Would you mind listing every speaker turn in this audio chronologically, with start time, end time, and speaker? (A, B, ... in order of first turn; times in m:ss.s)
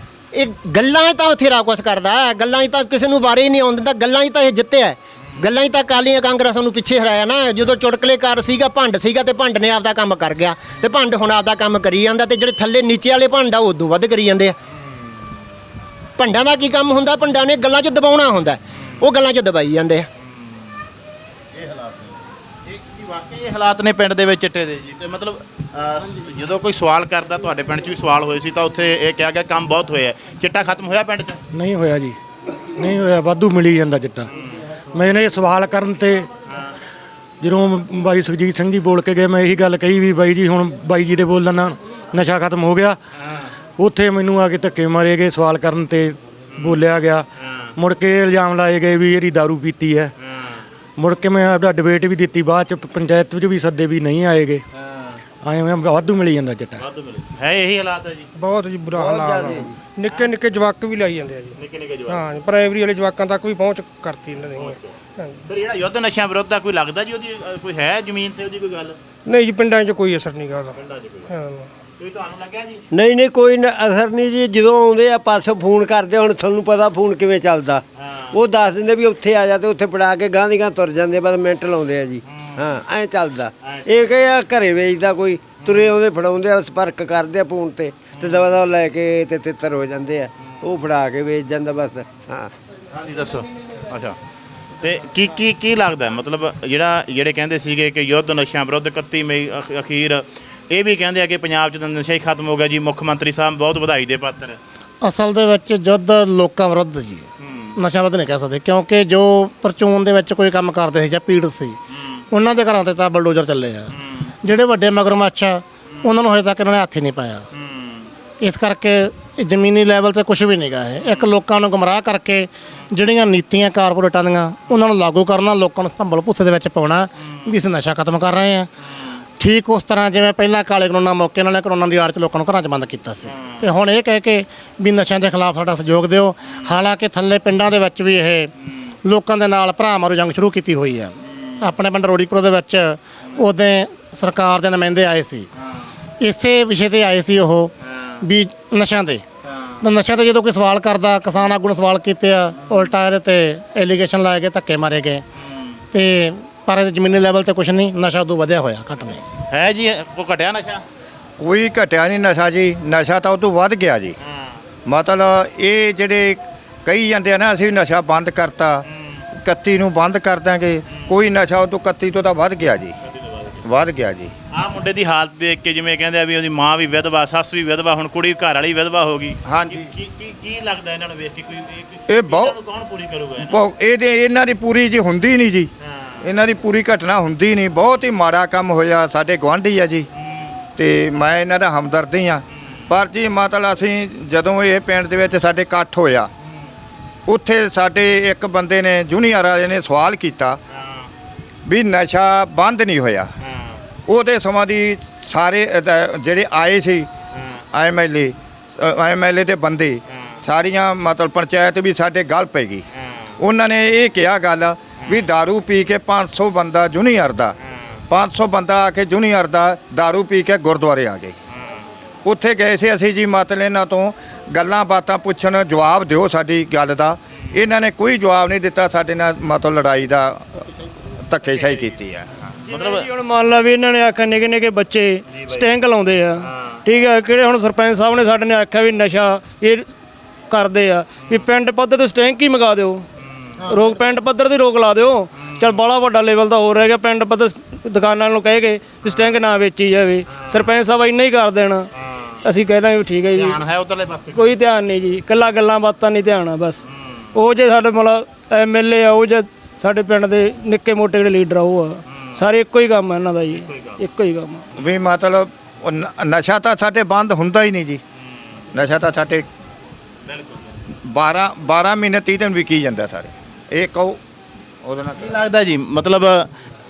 0:00.3-0:14.5 A
0:16.2-0:20.1 A
0:21.6-0:22.1 B
0:22.7-0:31.4 B
0:31.5-0:32.2 C
0:32.8-0:34.3 C
0:34.9-0:36.3 C
0:37.4-0:43.0 C
0:43.8-0:50.1 C
0:47.4-0:47.7 B
0:51.0-0:54.6 C
0:55.4-0:56.8 C
0:56.8-0:58.3 B
0:58.4-0:59.4 D
0:58.9-0:59.8 E
1:00.0-1:01.5 D
1:00.0-1:00.4 B
1:01.5-1:02.3 B
1:02.1-1:04.6 D
1:04.4-1:04.9 B
1:05.5-1:09.0 B
1:09.3-1:10.7 D
1:10.7-1:11.3 B
1:12.0-1:12.8 B
1:12.9-1:32.5 E
1:18.0-1:18.4 B
1:22.3-1:22.6 B
1:23.6-1:24.1 B
1:32.9-1:34.2 B
1:34.8-1:44.6 B
1:45.0-1:47.2 F
1:47.4-1:47.7 B
1:47.8-1:51.8 F
1:52.3-1:53.9 F
1:54.0-1:54.3 B
1:54.4-1:57.4 F
1:57.5-1:58.1 B
1:58.4-2:08.7 F
2:01.0-2:01.3 B
2:09.4-2:18.5 F
2:19.0-2:25.4 F
2:26.2-2:29.2 F
2:29.8-2:35.2 F
2:35.9-2:39.2 F
2:39.5-2:40.8 B
2:41.4-2:44.1 G
2:44.2-2:44.5 B
2:44.8-2:48.8 G
2:49.4-2:52.9 G
2:53.1-2:53.6 B
2:53.6-2:54.3 G
2:54.5-3:03.6 B
2:59.4-2:59.9 G
3:02.1-3:02.5 G
3:03.4-3:05.7 G
3:05.8-3:06.2 B
3:06.2-3:10.1 G
3:10.8-3:16.3 G
3:17.3-3:20.6 G
3:21.6-3:23.3 G
3:24.1-3:27.1 G
3:27.7-3:32.8 G
3:33.4-3:37.5 G
3:38.1-3:41.3 G
3:42.2-3:50.4 G
3:51.3-3:52.3 G
3:52.7-3:53.0 B
3:52.7-3:59.9 H
3:55.3-3:55.6 B
3:56.4-3:56.8 B
4:00.5-4:03.0 H
4:03.7-4:11.9 H
4:05.4-4:05.8 B
4:12.0-4:12.4 B
4:12.4-4:13.6 H
4:13.3-4:14.5 B
4:14.3-4:16.8 H
4:17.3-4:24.6 H
4:22.1-4:22.4 B
4:23.6-4:24.0 B
4:24.8-4:28.0 G
4:28.7-4:29.5 G
4:30.3-4:30.7 B
4:31.1-4:34.2 G
4:34.8-4:35.4 G
4:35.2-4:36.5 B